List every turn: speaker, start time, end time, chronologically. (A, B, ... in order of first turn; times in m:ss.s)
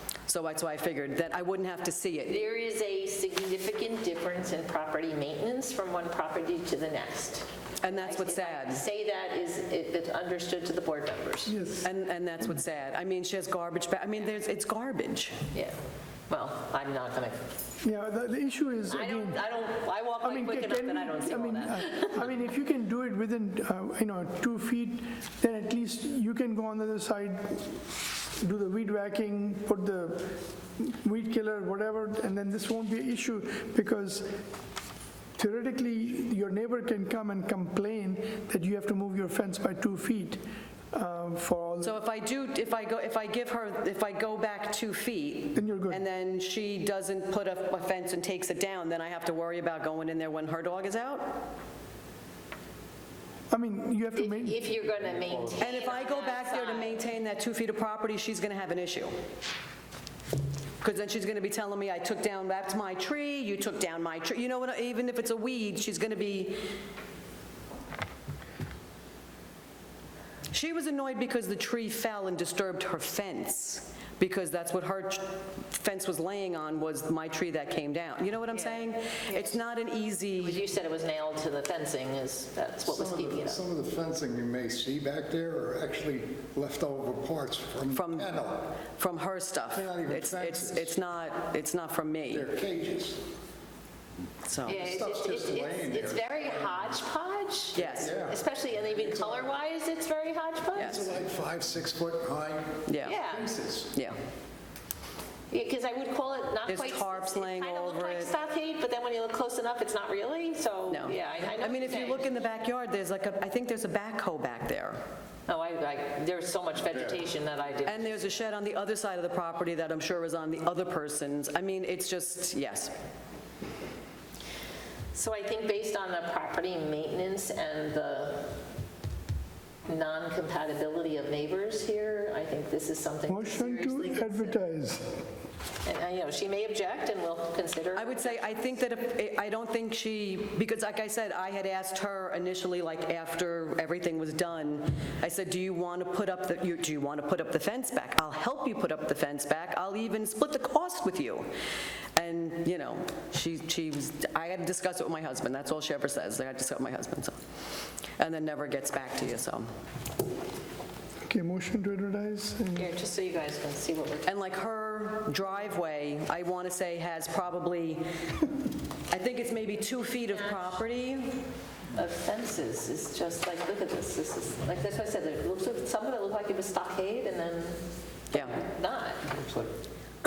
0:00.2-0:02.4 A
0:02.3-0:11.5 B
0:07.8-0:08.8 A
0:11.5-0:11.9 C
0:11.8-0:15.4 A
0:16.3-0:17.4 B
0:17.8-0:19.4 C
0:18.9-0:22.3 B
0:20.2-0:27.8 C
0:28.4-0:34.3 C
0:35.4-0:42.0 C
0:41.8-0:51.4 A
0:45.6-0:46.0 C
0:53.5-0:54.6 C
0:54.2-0:57.0 B
0:55.6-0:59.1 A
1:00.8-1:06.6 A
1:10.5-1:20.6 A
1:18.6-1:19.6 B
1:20.4-1:23.6 B
1:22.8-1:28.7 D
1:27.9-1:32.5 A
1:29.7-1:30.9 D
1:32.3-1:33.3 D
1:34.4-1:34.8 A
1:34.7-1:41.0 B
1:34.7-1:36.8 D
1:37.8-1:38.1 A
1:38.0-1:39.5 D
1:40.8-1:43.9 D
1:40.8-1:41.0 A
1:42.9-1:43.2 A
1:43.0-1:43.5 B
1:45.5-1:52.3 B
1:46.7-1:48.3 A
1:50.9-1:55.0 A
1:55.5-1:58.1 B
1:57.8-2:02.9 A
2:05.1-2:08.6 B
2:09.9-2:14.6 B
2:13.3-2:15.2 C
2:15.8-2:18.4 B
2:17.9-2:31.5 A
2:32.2-2:37.4 A
2:38.2-2:39.7 A
2:41.3-2:42.9 C
2:42.8-2:44.3 B
2:44.2-2:48.0 A
2:49.1-2:51.4 A
2:50.3-2:50.8 B
2:51.9-2:59.8 B
2:58.3-2:58.6 A